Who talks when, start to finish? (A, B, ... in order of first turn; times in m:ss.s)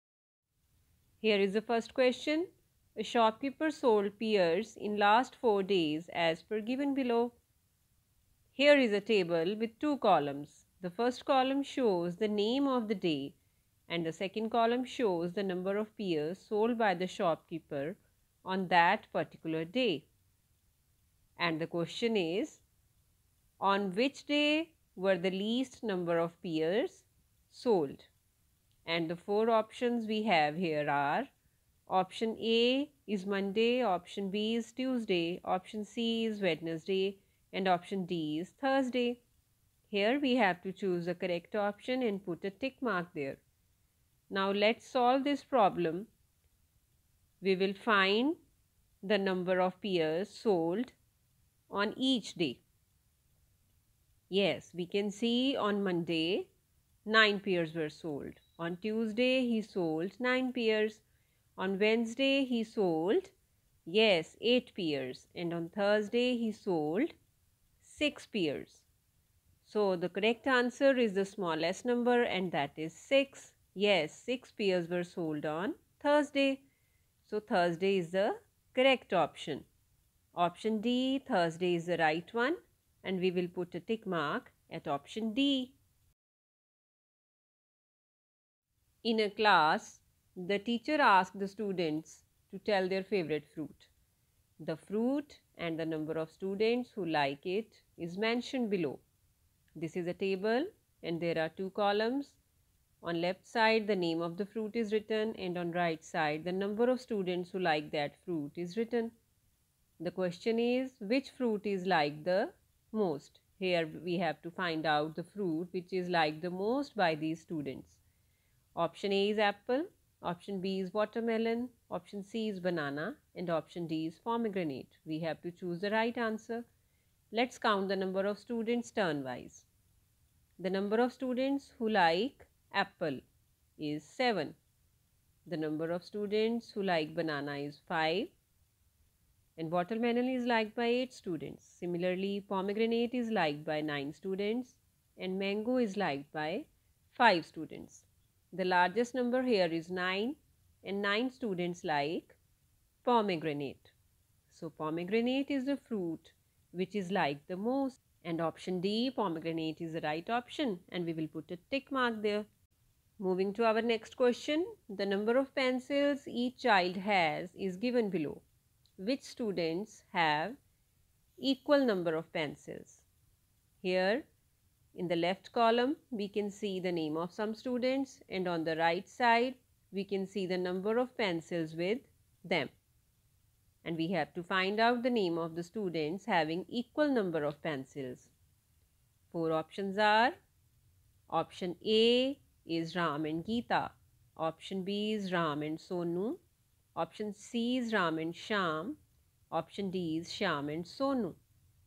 0:01.2-0:07.4 A
0:08.5-0:13.4 A
0:13.9-0:20.1 A
0:21.4-0:22.6 A
0:23.6-0:28.1 A
0:28.8-0:31.3 A
0:31.9-0:39.2 A
0:39.9-0:43.4 A
0:44.3-0:46.1 A
0:47.4-0:48.4 A
0:49.0-0:51.0 A
0:51.7-0:52.6 A
0:54.3-0:56.5 A
0:57.0-1:01.0 A
1:01.6-1:03.3 A
1:03.8-1:07.1 A
1:07.8-1:08.8 A
1:09.6-1:16.6 A
1:17.2-1:19.6 A
1:20.3-1:25.8 A
1:29.0-1:33.9 A
1:34.6-1:39.0 A
1:39.8-1:42.4 A
1:43.0-1:49.1 A
1:50.0-1:58.0 A
1:58.7-2:06.6 A
2:07.3-2:09.7 A
2:10.6-2:13.2 A
2:13.8-2:14.6 A
2:15.4-2:18.3 A
2:19.6-2:32.4 A
2:33.0-2:33.9 A
2:34.5-2:42.5 A
2:43.2-2:48.4 A
2:49.0-2:50.6 A
2:51.4-2:53.0 A
2:53.8-2:54.2 A
2:54.9-3:02.7 A
3:03.8-3:08.3 A
3:09.3-3:10.4 A
3:11.3-3:16.4 A
3:16.9-3:19.0 A
3:19.5-3:21.4 A